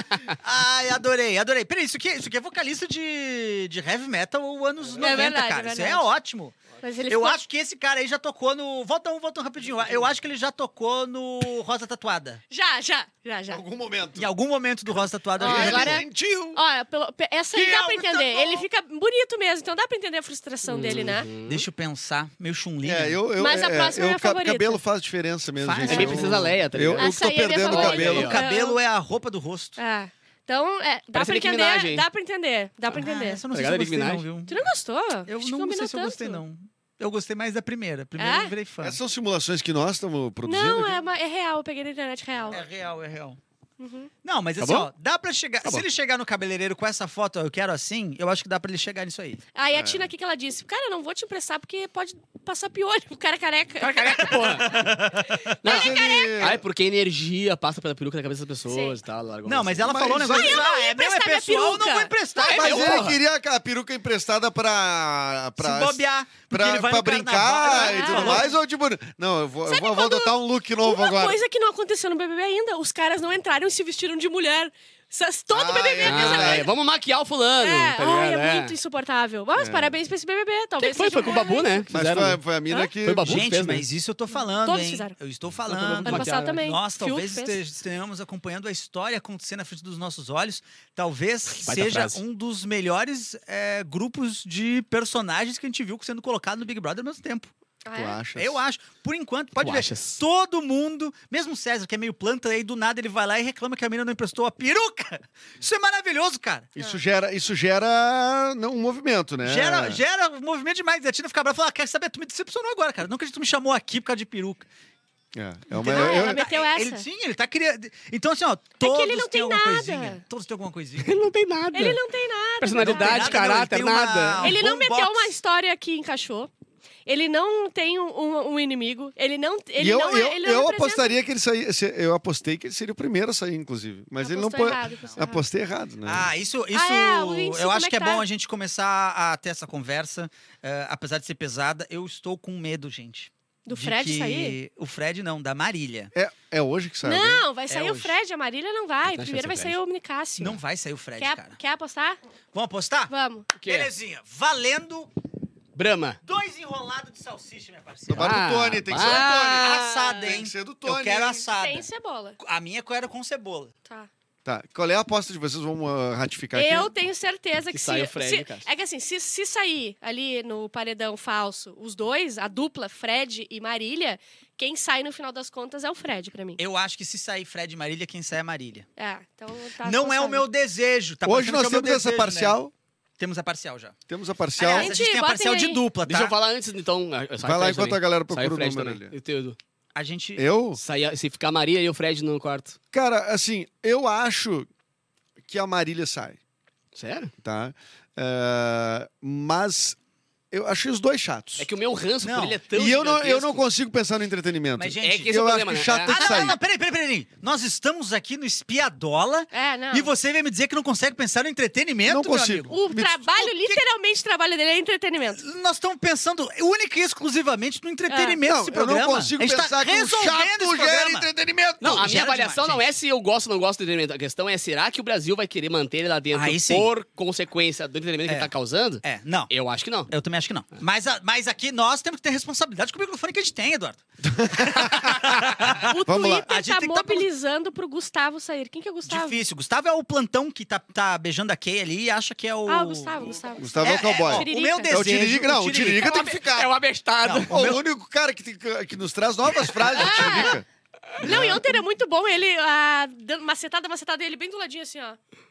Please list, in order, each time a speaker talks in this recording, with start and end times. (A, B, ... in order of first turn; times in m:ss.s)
0:00.3-0:12.4 A
0:05.0-0:06.1 B
0:06.8-0:07.4 B
0:12.5-0:13.6 B
0:13.5-0:14.3 C
0:14.2-0:16.0 A
0:15.4-0:21.3 B
0:15.4-0:16.6 C
0:17.5-0:18.6 A
0:20.7-0:21.6 D
0:21.4-0:23.2 A
0:22.8-0:28.3 C
0:23.4-0:24.8 B
0:25.6-0:26.4 A
0:25.8-0:28.4 D
0:27.0-0:28.8 B
0:27.8-0:29.8 A
0:29.8-0:33.4 B
0:31.1-0:32.0 D
0:32.9-0:34.7 A
0:33.5-0:34.2 D
0:34.5-0:36.4 B
0:35.2-0:39.0 A
0:38.2-0:38.5 B
0:38.8-0:41.0 C
0:40.4-0:42.6 B
0:42.5-0:43.4 A
0:43.8-0:44.1 B
0:44.2-0:49.4 A
0:44.6-0:44.9 D
0:49.5-0:54.3 B
0:49.7-0:50.1 C
0:53.8-0:54.8 D
0:54.6-0:55.5 A
0:55.6-0:56.4 B
0:55.6-0:56.6 C
0:55.6-1:00.0 D
0:58.7-0:58.9 B
0:59.4-1:03.1 A
0:59.8-1:00.6 C
1:00.3-1:02.6 B
1:02.5-1:11.4 C
1:02.6-1:03.2 D
1:05.6-1:08.5 A
1:07.7-1:08.6 B
1:09.7-1:16.7 B
1:15.5-1:16.7 C
1:16.0-1:18.7 D
1:17.6-1:21.9 B
1:19.6-1:20.0 C
1:20.8-1:22.4 D
1:21.9-1:23.5 C
1:23.0-1:23.8 D
1:23.2-1:37.5 A
1:24.6-1:25.1 B
1:25.7-1:26.6 D
1:26.0-1:27.6 B
1:31.5-1:32.2 D
1:37.8-1:38.2 B
1:37.9-1:38.6 C
1:38.3-1:46.7 A
1:39.6-1:40.2 D
1:46.7-1:50.0 C
1:49.4-1:54.6 A
1:55.3-1:56.4 C
1:55.7-2:01.2 A
1:55.8-1:57.0 B
1:58.8-2:00.2 B
2:01.0-2:02.0 D
2:01.7-2:03.4 B
2:02.6-2:04.6 D
2:02.8-2:05.3 A
2:04.4-2:06.5 B
2:07.0-2:11.2 B
2:09.8-2:16.3 C
2:14.2-2:15.4 B
2:16.0-2:26.1 A
2:16.7-2:18.2 B
2:23.7-2:24.6 B
2:26.1-2:27.4 C
2:27.0-2:30.6 B
2:27.7-2:28.1 A
2:29.1-2:29.8 D
2:30.4-2:31.6 A
2:31.2-2:32.2 B
2:32.5-2:35.1 A
2:33.1-2:33.5 B
2:33.6-2:33.9 D
2:35.7-2:36.2 D
2:36.2-2:38.4 A
2:38.1-2:41.4 C
2:38.2-2:40.2 D
2:39.1-2:41.9 A
2:41.6-2:42.4 B
2:42.4-2:43.7 A
2:44.4-2:46.9 C
2:46.5-2:56.6 B
2:47.7-2:48.7 D
2:56.6-2:58.9 A
2:59.0-3:00.4 B
2:59.8-3:02.6 A
3:01.2-3:02.7 C
3:03.2-3:03.9 A
3:04.1-3:04.9 C
3:04.6-3:06.3 A
3:04.7-3:05.8 B
3:06.0-3:09.6 D
3:07.4-3:09.1 C
3:09.9-3:10.4 A
3:10.4-3:10.8 C
3:10.7-3:12.8 D
3:12.9-3:14.7 C
3:15.4-3:16.4 C
3:16.9-3:17.3 D
3:17.4-3:20.0 C
3:20.5-3:21.7 C
3:21.6-3:23.6 D
3:22.2-3:22.6 A
3:22.7-3:26.6 C
3:24.8-3:25.4 A
3:25.0-3:26.3 D
3:26.0-3:32.7 A
3:29.5-3:30.1 B
3:32.0-3:33.2 C
3:32.7-3:35.4 B
3:33.4-3:33.8 A
3:35.4-3:41.3 A
3:38.1-3:38.4 B
3:38.4-3:42.1 C
3:41.8-3:50.1 D
3:41.8-3:42.8 A
3:46.3-3:46.9 A
3:48.3-3:49.5 A
3:50.1-3:55.9 A
3:54.3-3:56.5 C
3:55.9-3:59.4 B
3:56.5-3:57.3 A
3:59.1-4:03.2 A
4:02.7-4:04.9 B
4:03.6-4:06.7 C
4:03.8-4:06.4 A
4:06.0-4:07.7 D
4:07.2-4:07.8 A
4:07.5-4:10.6 C
4:09.9-4:10.6 B
4:11.2-4:11.7 C
4:11.2-4:15.2 B